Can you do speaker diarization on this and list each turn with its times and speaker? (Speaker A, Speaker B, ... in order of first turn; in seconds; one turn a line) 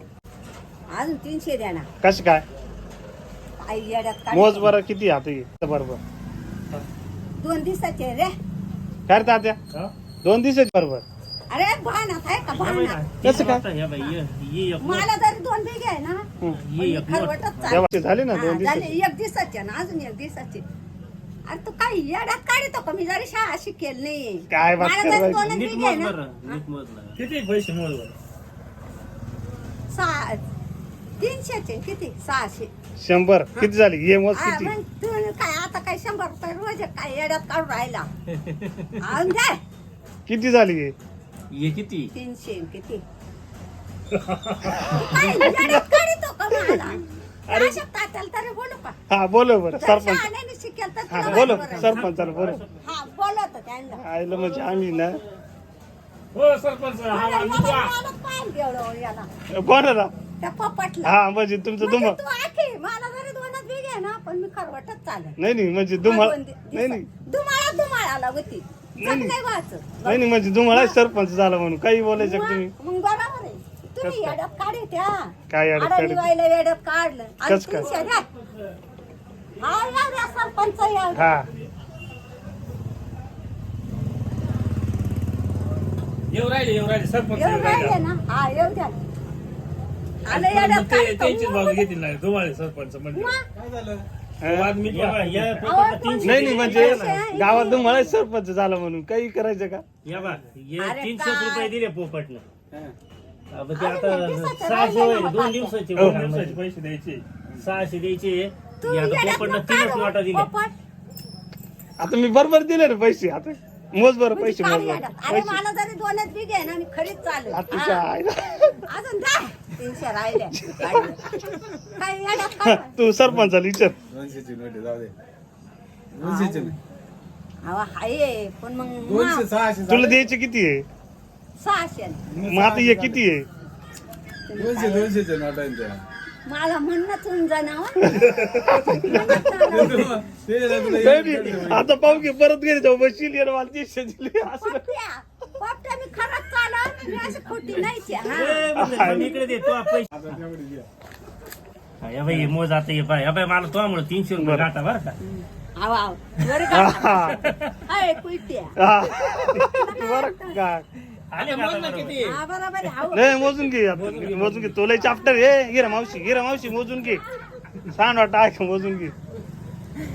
Speaker A: 0.9-1.9
Speaker B: 2.0-2.5
Speaker A: 3.6-4.8
Speaker B: 4.3-6.0
Speaker A: 7.4-8.4
Speaker B: 9.1-9.6
Speaker B: 10.2-11.1
Speaker A: 11.5-13.4
Speaker C: 12.6-15.1
Speaker B: 13.2-13.6
Speaker A: 14.8-20.6
Speaker C: 16.5-17.9
Speaker B: 17.7-18.9
Speaker A: 21.5-26.6
Speaker B: 24.5-25.5
Speaker C: 25.4-27.2
Speaker D: 27.2-28.1
Speaker A: 29.9-30.4
Speaker A: 31.2-32.7
Speaker B: 33.0-34.7
Speaker A: 34.3-38.1
Speaker C: 38.4-39.0
Speaker A: 39.0-39.6
Speaker B: 40.3-41.0
Speaker C: 41.5-42.1
Speaker A: 42.1-43.0
Speaker D: 44.1-44.8
Speaker A: 44.9-49.0
Speaker B: 45.0-45.9
Speaker C: 45.1-45.5
Speaker B: 46.5-47.0
Speaker B: 47.5-47.8
Speaker B: 49.1-50.3
Speaker A: 49.8-52.1
Speaker B: 51.1-52.6
Speaker C: 51.2-52.1
Speaker A: 52.8-54.0
Speaker B: 54.0-55.2
Speaker D: 56.3-57.9
Speaker A: 57.1-59.3
Speaker B: 59.5-60.1
Speaker A: 60.4-61.1
Speaker B: 61.0-62.2
Speaker A: 61.8-65.4
Speaker B: 65.4-67.1
Speaker A: 66.0-71.0
Speaker B: 69.0-69.3
Speaker B: 70.0-72.7
Speaker A: 72.2-78.3
Speaker B: 74.0-74.4
Speaker B: 75.5-76.3
Speaker B: 77.5-77.9
Speaker A: 79.6-81.3
Speaker B: 81.2-81.5
Speaker D: 86.3-88.0
Speaker A: 87.3-88.9
Speaker A: 90.2-91.9
Speaker D: 90.3-93.4
Speaker A: 93.1-93.5
Speaker E: 93.5-94.1
Speaker B: 94.4-94.8
Speaker D: 94.4-95.6
Speaker C: 94.8-97.7
Speaker A: 95.6-98.2
Speaker B: 96.2-99.8
Speaker C: 100.0-102.5
Speaker A: 100.8-101.7
Speaker C: 103.5-106.6
Speaker A: 103.8-105.8
Speaker D: 106.0-107.2
Speaker C: 107.6-110.5
Speaker A: 108.8-110.7
Speaker B: 112.0-115.6
Speaker A: 114.3-118.0
Speaker B: 117.5-118.8
Speaker A: 118.9-121.4
Speaker B: 120.5-121.5
Speaker A: 122.0-122.9
Speaker B: 122.6-124.0
Speaker E: 124.1-125.1
Speaker E: 126.2-126.8
Speaker A: 126.2-126.8
Speaker A: 127.7-129.5
Speaker E: 129.0-130.2
Speaker B: 129.9-130.8
Speaker A: 131.6-132.2
Speaker E: 132.3-133.2
Speaker B: 132.4-133.5
Speaker A: 134.5-135.2
Speaker E: 134.5-136.0
Speaker A: 136.4-140.2
Speaker B: 138.0-139.4
Speaker E: 139.1-141.9
Speaker B: 140.8-144.9
Speaker A: 144.6-148.7
Speaker C: 148.1-150.4
Speaker B: 148.8-149.6
Speaker E: 150.1-150.9
Speaker C: 152.0-155.2
Speaker B: 154.4-154.7
Speaker A: 155.2-160.6
Speaker B: 156.7-157.4
Speaker B: 158.8-160.9
Speaker C: 161.3-162.4
Speaker D: 161.4-162.2
Speaker A: 162.1-163.6
Speaker B: 163.1-167.2
Speaker C: 163.9-164.9
Speaker B: 167.9-169.2